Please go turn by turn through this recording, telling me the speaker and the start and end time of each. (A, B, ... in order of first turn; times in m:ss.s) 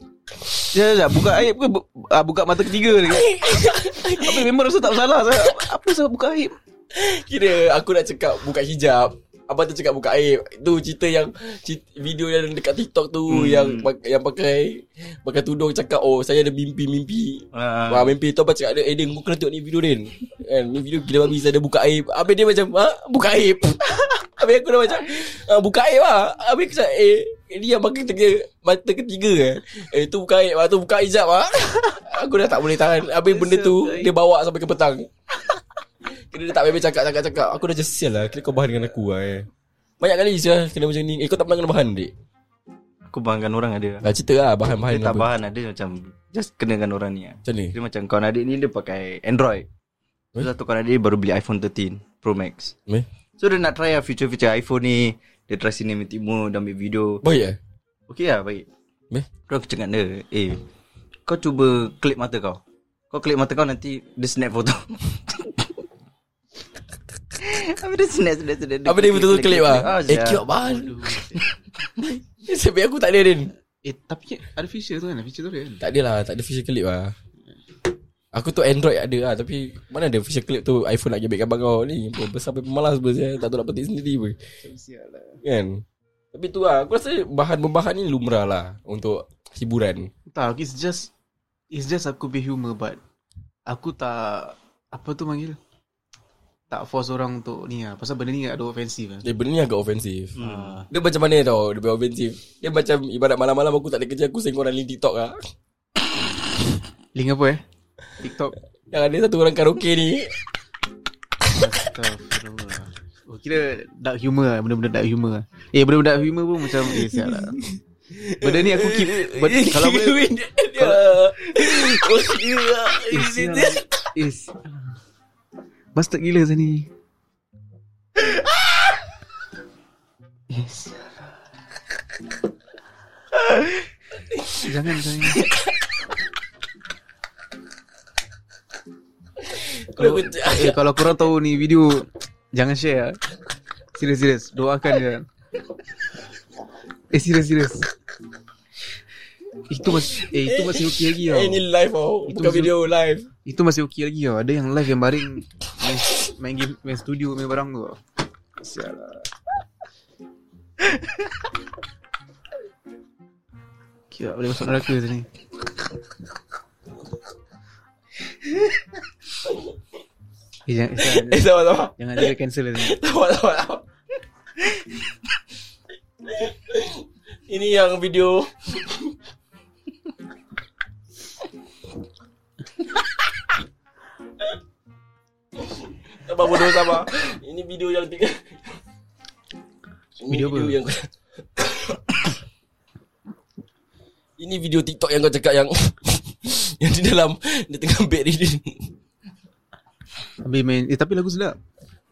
0:00.7-0:06.6 A
0:03.0-0:04.5 B
0:06.9-0:35.1 B
0:13.3-0:13.9 C
0:17.5-0:18.1 C
0:33.3-0:34.1 A
0:36.3-0:39.5 B
0:40.0-0:42.1 B
0:43.1-0:44.0 C
0:44.0-0:45.3 B
0:44.9-0:49.7 C
0:47.4-0:47.8 B
0:50.4-0:52.7 C
0:53.4-0:57.2 C
0:57.2-0:57.6 B
0:58.1-0:58.7 C
0:59.5-1:00.6 C
1:01.3-1:05.8 C
1:07.4-1:10.5 C
1:08.8-1:11.2 B
1:10.6-1:11.5 A
1:12.4-1:13.5 B
1:13.8-1:15.8 A
1:15.8-1:17.1 B
1:18.3-1:24.4 B
1:24.6-1:25.4 A
1:25.4-1:30.1 B
1:30.3-1:31.1 A
1:31.7-1:33.0 A
1:33.7-1:35.6 A
1:36.7-1:39.2 A
1:39.2-1:40.4 B
1:40.4-1:40.8 C
1:40.4-1:40.9 A
1:40.9-1:45.5 B
1:47.2-1:47.6 A
1:48.2-1:48.5 A
1:48.9-1:50.4 B
1:51.5-1:57.6 A
1:57.0-1:57.4 B
1:58.2-2:03.8 B
1:58.4-2:00.0 A
1:59.6-2:00.2 C
2:03.1-2:05.0 A
2:06.0-2:06.9 A
2:10.5-2:11.1 A
2:14.6-2:15.5 A
2:15.4-2:15.7 B
2:19.4-2:20.8 B
2:20.0-2:23.2 A
2:24.0-2:25.2 A
2:27.1-2:27.9 A
2:29.7-2:31.6 A
2:30.3-2:33.3 B
2:32.3-2:32.7 A
2:33.4-2:38.0 A
2:38.6-2:39.3 A
2:44.1-2:45.3 A
2:50.7-2:53.0 A
2:51.0-2:53.8 B
2:56.3-2:59.1 B
3:05.7-3:08.6 B
3:10.2-3:12.2 B
3:10.3-3:10.8 A
3:14.4-3:18.9 B
3:20.4-3:21.6 A